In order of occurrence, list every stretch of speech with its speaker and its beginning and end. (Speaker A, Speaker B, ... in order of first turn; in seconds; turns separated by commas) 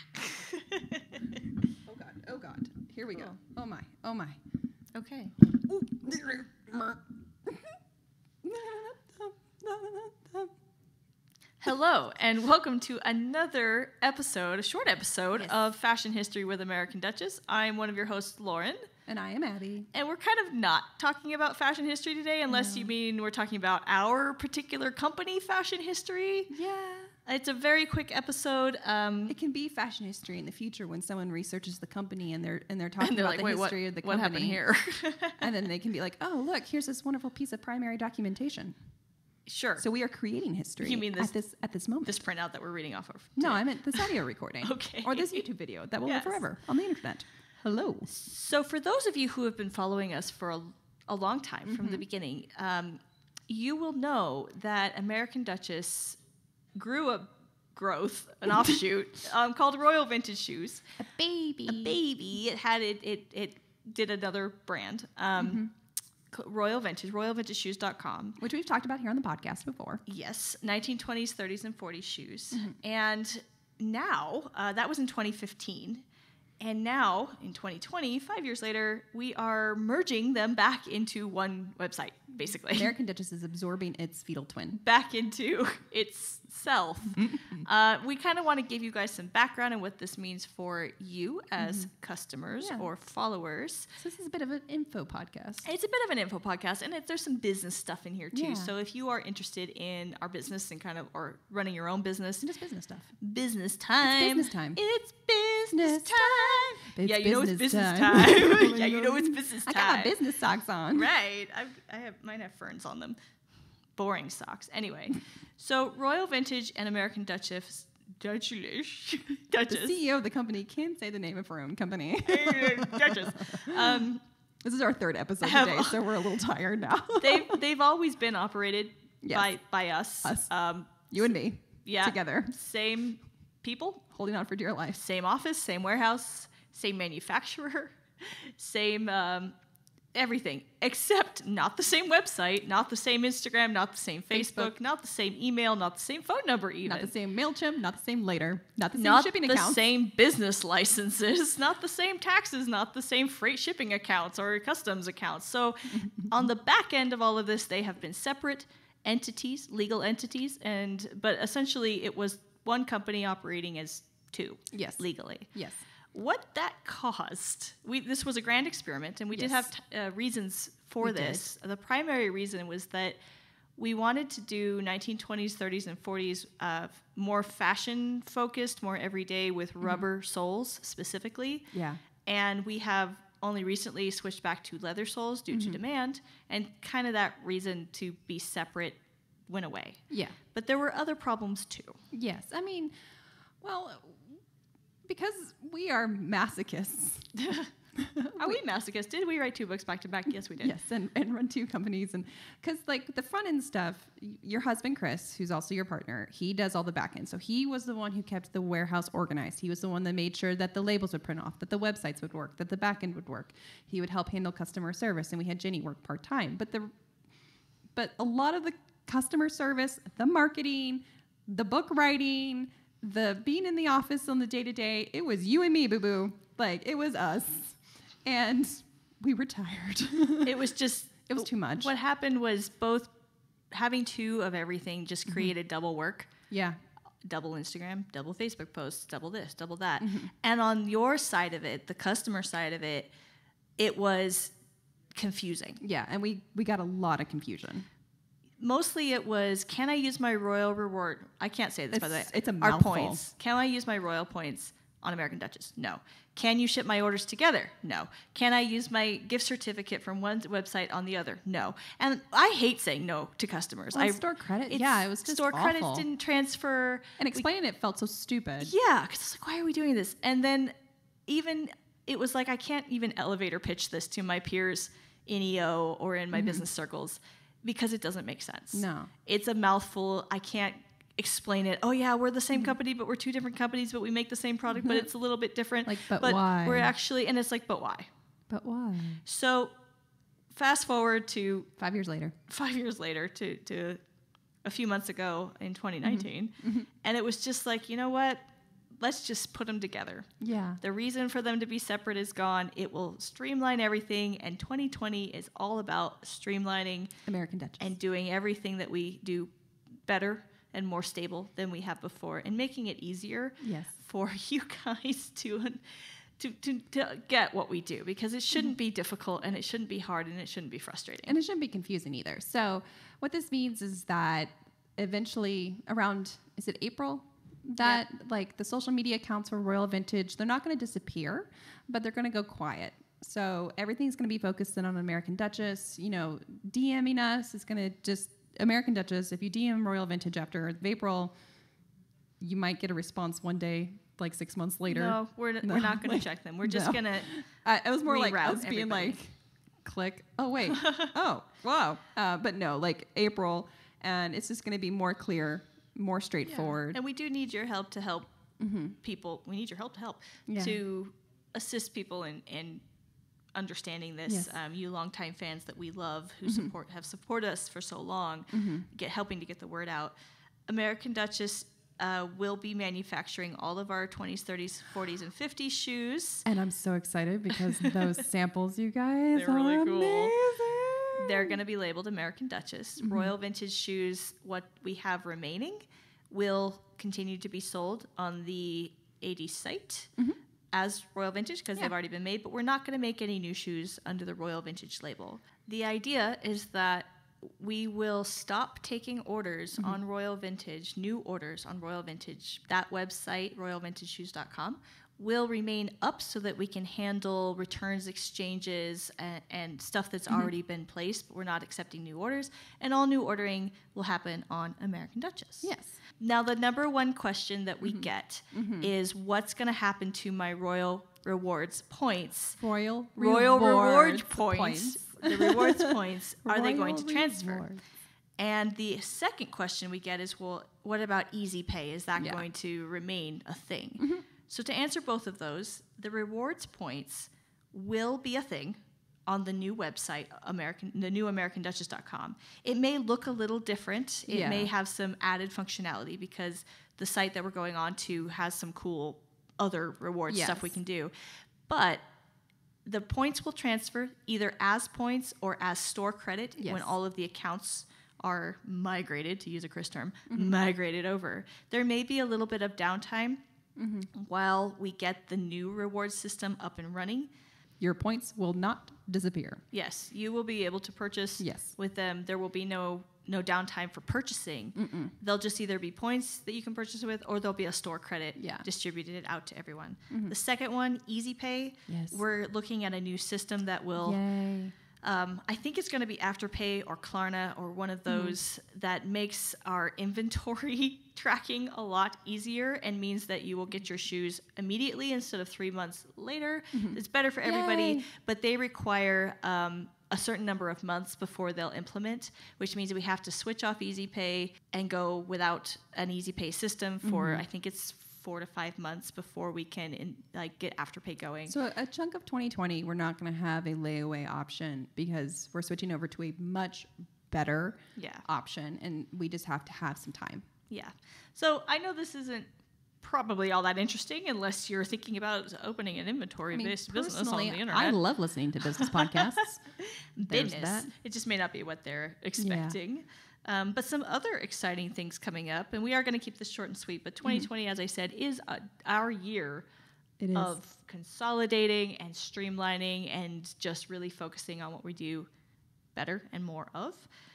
Speaker A: 0.3-1.0, Speaker B: 1.8-4.4, Speaker A: 4.9-5.3, Speaker B: 5.5-7.7, Speaker B: 8.4-10.5, Speaker A: 11.6-18.9, Speaker B: 19.1-19.9, Speaker A: 19.9-26.5, Speaker B: 22.5-22.9, Speaker B: 26.5-27.1, Speaker A: 27.2-29.3, Speaker B: 29.3-34.6, Speaker A: 33.0-35.5, Speaker B: 35.4-38.7, Speaker A: 39.5-39.8, Speaker B: 39.8-42.2, Speaker A: 40.8-41.3, Speaker A: 42.0-45.5, Speaker B: 43.4-48.1, Speaker A: 46.0-46.4, Speaker A: 48.0-56.2, Speaker B: 51.6-52.0, Speaker A: 56.7-60.8, Speaker B: 61.0-62.0, Speaker A: 61.6-65.6, Speaker B: 65.4-65.7, Speaker A: 66.3-68.4, Speaker B: 68.4-70.0, Speaker A: 70.0-76.0, Speaker A: 76.6-82.9, Speaker B: 82.7-84.8, Speaker A: 84.7-93.9, Speaker B: 91.6-91.9, Speaker B: 92.6-92.9, Speaker B: 94.0-95.7, Speaker A: 95.6-102.5, Speaker B: 98.3-98.7, Speaker B: 102.4-103.1, Speaker A: 103.2-110.2, Speaker B: 104.0-104.8, Speaker B: 105.7-111.1, Speaker A: 110.9-113.2, Speaker A: 114.0-120.0, Speaker B: 119.7-124.1, Speaker A: 122.2-124.2, Speaker B: 124.6-127.6, Speaker A: 125.4-126.0, Speaker A: 127.2-131.3, Speaker B: 129.2-129.5, Speaker B: 130.2-130.5, Speaker B: 131.1-132.5, Speaker A: 131.8-134.0, Speaker B: 134.1-135.0, Speaker A: 134.9-139.6, Speaker A: 140.1-147.1, Speaker B: 144.3-144.7, Speaker B: 146.8-149.9, Speaker A: 148.9-165.5, Speaker B: 155.9-156.5, Speaker B: 164.7-165.8, Speaker A: 166.1-173.2, Speaker B: 169.3-169.7, Speaker B: 171.0-171.4, Speaker A: 173.8-181.7, Speaker B: 181.7-182.0, Speaker A: 182.2-192.0, Speaker B: 185.5-185.8, Speaker B: 190.1-190.3, Speaker B: 192.1-192.9, Speaker B: 193.6-194.4, Speaker B: 195.1-197.4, Speaker A: 197.4-197.7, Speaker B: 198.0-198.6, Speaker A: 198.3-200.7, Speaker B: 200.6-216.9, Speaker B: 217.9-230.6, Speaker A: 230.4-233.1, Speaker B: 231.3-231.9, Speaker A: 233.7-236.3, Speaker B: 235.3-235.5, Speaker B: 236.5-236.7, Speaker A: 237.2-243.1, Speaker B: 240.0-240.3, Speaker A: 243.8-244.5, Speaker A: 245.1-245.8, Speaker B: 245.8-247.8, Speaker A: 248.6-267.4, Speaker B: 251.9-253.2, Speaker B: 263.9-266.1, Speaker B: 267.2-268.7, Speaker A: 268.6-270.7, Speaker A: 271.3-288.1, Speaker B: 276.3-276.6, Speaker B: 278.7-279.1, Speaker B: 284.7-285.1, Speaker B: 285.9-286.9, Speaker B: 288.5-289.2, Speaker A: 289.2-289.7, Speaker A: 290.5-291.7, Speaker B: 291.8-292.3, Speaker A: 292.5-294.0, Speaker A: 294.6-298.5, Speaker B: 296.0-296.9, Speaker A: 299.0-300.3, Speaker B: 300.4-300.8, Speaker A: 300.8-307.1, Speaker B: 307.2-307.9, Speaker A: 307.8-309.5, Speaker A: 310.0-321.4, Speaker B: 313.6-313.9, Speaker B: 321.3-341.3, Speaker B: 342.4-357.0, Speaker A: 344.9-347.3, Speaker A: 348.0-349.2, Speaker A: 350.6-351.1, Speaker A: 356.4-358.3, Speaker B: 358.6-359.0, Speaker A: 359.0-362.8, Speaker B: 360.5-360.8, Speaker A: 363.5-370.1, Speaker B: 364.3-364.5, Speaker B: 366.4-366.7, Speaker B: 368.5-368.9, Speaker A: 370.7-376.4, Speaker B: 376.4-381.6, Speaker A: 379.3-380.3, Speaker A: 381.2-390.1, Speaker B: 383.0-383.3, Speaker A: 390.7-422.6, Speaker B: 415.6-416.0, Speaker B: 417.8-418.9, Speaker B: 422.6-427.8, Speaker A: 423.2-427.6, Speaker A: 428.4-451.1, Speaker B: 432.2-432.4, Speaker B: 434.0-434.2, Speaker B: 444.3-444.7, Speaker B: 450.3-450.7, Speaker A: 451.7-452.0, Speaker A: 452.8-463.4, Speaker B: 456.6-456.9, Speaker B: 460.3-460.6, Speaker B: 463.8-464.1, Speaker A: 464.1-467.3, Speaker B: 467.8-469.6, Speaker A: 469.7-484.2, Speaker B: 471.4-471.7, Speaker B: 474.8-475.1, Speaker B: 478.4-478.6, Speaker B: 480.1-480.4, Speaker B: 481.9-482.2, Speaker B: 484.0-484.7, Speaker A: 485.0-511.5, Speaker B: 488.1-488.4, Speaker B: 496.7-498.1, Speaker B: 507.0-507.4, Speaker B: 511.5-520.4, Speaker A: 518.0-518.2, Speaker A: 520.7-528.0, Speaker B: 526.5-529.6, Speaker A: 528.7-539.6, Speaker B: 530.3-530.9, Speaker B: 532.4-532.8, Speaker B: 540.2-540.6, Speaker A: 540.3-545.3, Speaker A: 545.9-547.1